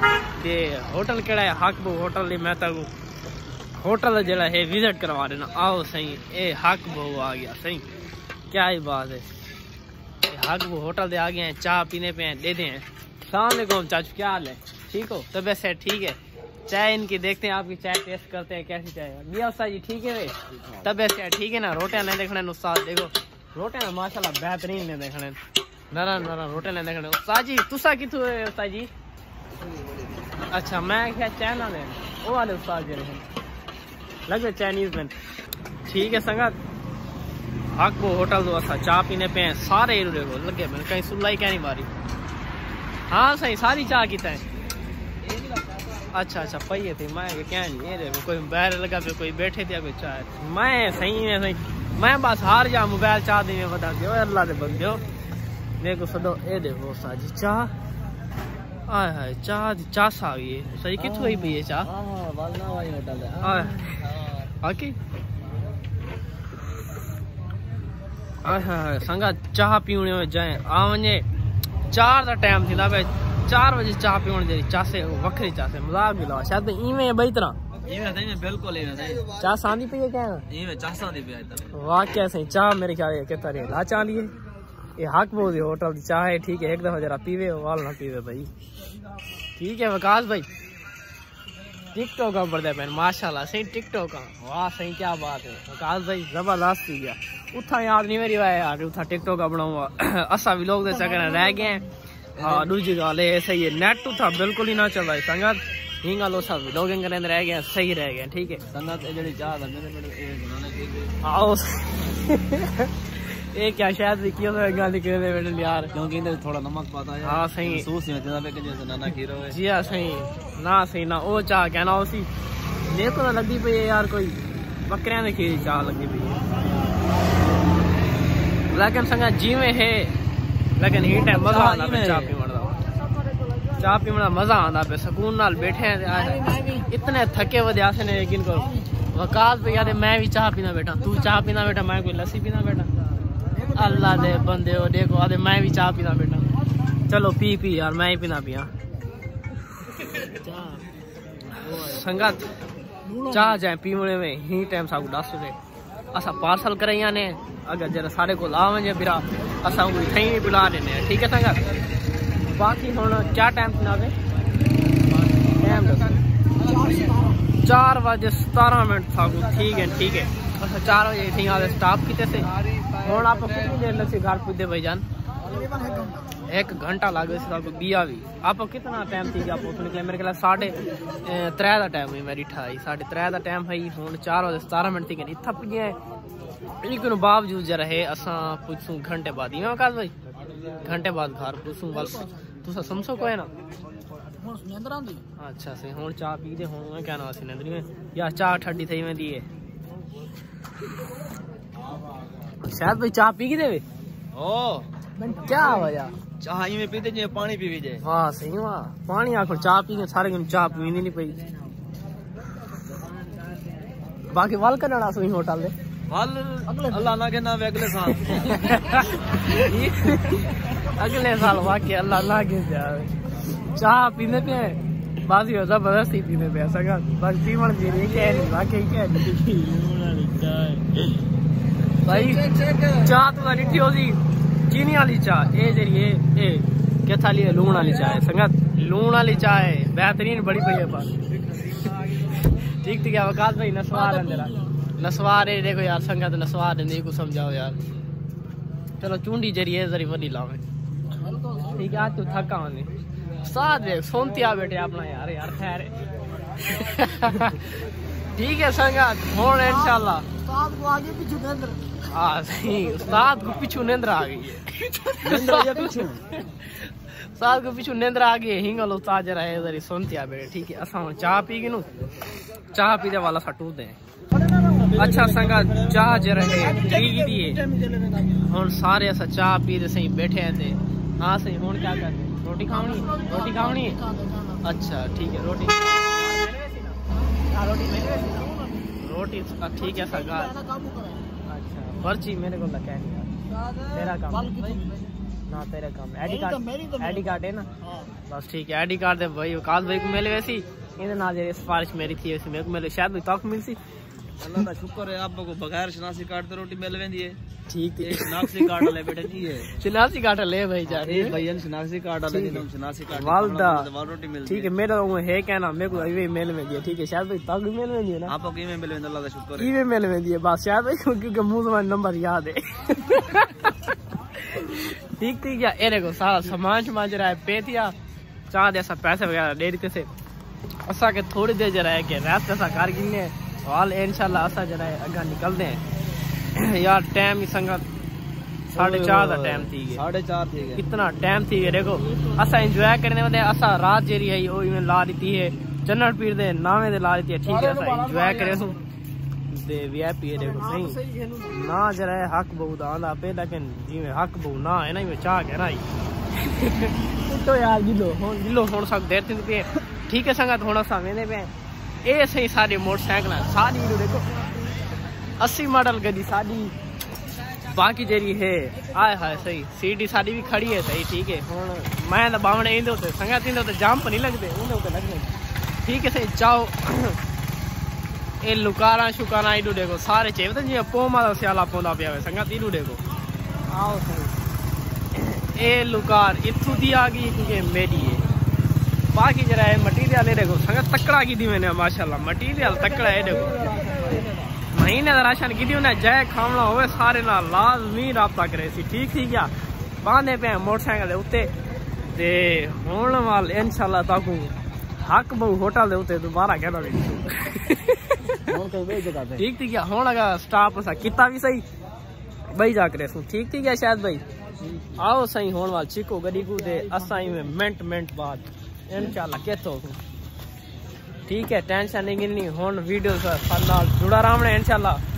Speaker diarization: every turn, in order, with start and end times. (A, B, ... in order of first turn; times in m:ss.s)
0:00.4-0:02.9 A
0:03.8-0:07.9 A
0:08.5-0:09.2 A
0:10.3-0:25.4 A
0:20.5-0:20.9 B
0:25.9-0:28.9 A
0:30.5-0:33.2 A
0:34.3-0:35.1 A
0:35.9-0:36.6 A
0:37.7-0:41.9 A
0:43.1-0:44.4 A
0:45.3-0:45.7 B
0:46.1-0:55.0 A
0:55.8-0:57.7 A
0:58.9-1:01.9 A
1:01.0-1:04.5 B
1:03.4-1:04.0 A
1:04.6-1:05.0 A
1:08.4-1:11.2 A
1:11.9-1:17.6 A
1:17.8-1:19.3 B
1:19.4-1:20.4 A
1:20.5-1:21.7 B
1:21.7-1:24.3 A
1:25.0-1:28.5 A
1:29.6-1:30.5 A
1:31.9-1:41.8 A
1:42.4-1:42.7 B
1:42.4-1:48.6 A
1:48.7-1:51.2 B
1:51.2-1:55.9 A
1:55.9-1:59.6 B
1:57.2-1:57.9 A
1:59.5-2:02.3 A
2:02.9-2:06.4 A
2:08.7-2:10.1 A
2:10.8-2:12.8 A
2:11.1-2:12.4 B
2:13.8-2:22.9 A
2:23.7-2:26.4 A
2:27.1-2:28.7 A
2:30.5-2:30.8 C
2:31.6-2:32.4 A
2:33.2-2:35.6 A
2:36.1-2:41.6 A
2:42.4-2:44.1 A
2:45.6-2:46.2 A
2:46.7-2:47.3 C
2:47.6-2:55.0 A
2:55.5-2:56.2 C
2:56.5-3:06.0 A
3:06.8-3:10.1 A
3:10.8-3:13.5 A
3:14.4-3:15.2 C
3:15.4-3:19.4 A
3:22.6-3:23.8 A
3:24.3-3:24.9 B
3:25.3-3:26.1 A
3:26.4-3:28.0 B
3:28.0-3:31.4 A
3:34.3-3:35.7 A
3:36.1-3:38.8 B
3:38.3-3:49.6 A
3:49.5-3:51.1 B
3:52.0-4:01.1 A
3:52.6-3:52.9 B
4:02.4-4:07.8 A
4:09.0-4:10.6 A
4:11.2-4:11.7 C
4:11.7-4:12.9 A
4:13.4-4:16.0 A
4:16.6-4:17.8 A
4:18.4-4:20.3 A
4:20.3-4:21.9 C
4:22.1-4:31.9 A
4:25.2-4:26.3 B
4:32.7-4:34.0 A
4:34.3-4:36.0 B
4:34.9-4:37.6 A
4:37.7-4:38.3 B
4:38.4-4:44.0 A
4:43.1-4:44.6 C
4:44.6-4:50.6 A
4:50.3-4:51.2 C
4:51.5-4:54.8 A
4:54.5-4:55.0 C
4:55.5-4:57.7 A
4:58.3-5:03.8 A
5:04.4-5:07.4 B
5:07.7-5:08.9 A
5:08.0-5:09.7 B
5:09.7-5:11.4 A
5:10.9-5:14.7 B
5:12.3-5:13.9 A
5:14.4-5:18.3 A
5:18.3-5:19.7 B
5:19.6-5:27.9 A
5:28.5-5:30.1 A
5:30.9-5:35.8 A
5:36.5-5:37.8 A
5:38.7-5:40.8 B
5:38.7-5:40.0 A
5:40.8-5:48.8 A
5:47.7-5:48.6 C
5:49.5-6:01.5 A
5:51.0-5:51.4 C
6:02.0-6:04.4 A
6:05.4-6:06.7 A
6:07.6-6:15.3 A
6:15.8-6:17.2 A
6:18.4-6:23.0 A
6:23.7-6:24.3 A
6:25.1-6:28.2 A
6:29.1-6:33.8 A
6:33.5-6:34.4 B
6:34.6-6:39.5 A
6:40.0-6:41.5 A
6:42.1-6:48.4 A
6:48.4-6:49.4 B
6:49.4-6:51.6 A
6:52.5-6:54.2 A
6:54.6-6:55.0 B
6:55.0-7:00.0 A
7:01.3-7:05.0 A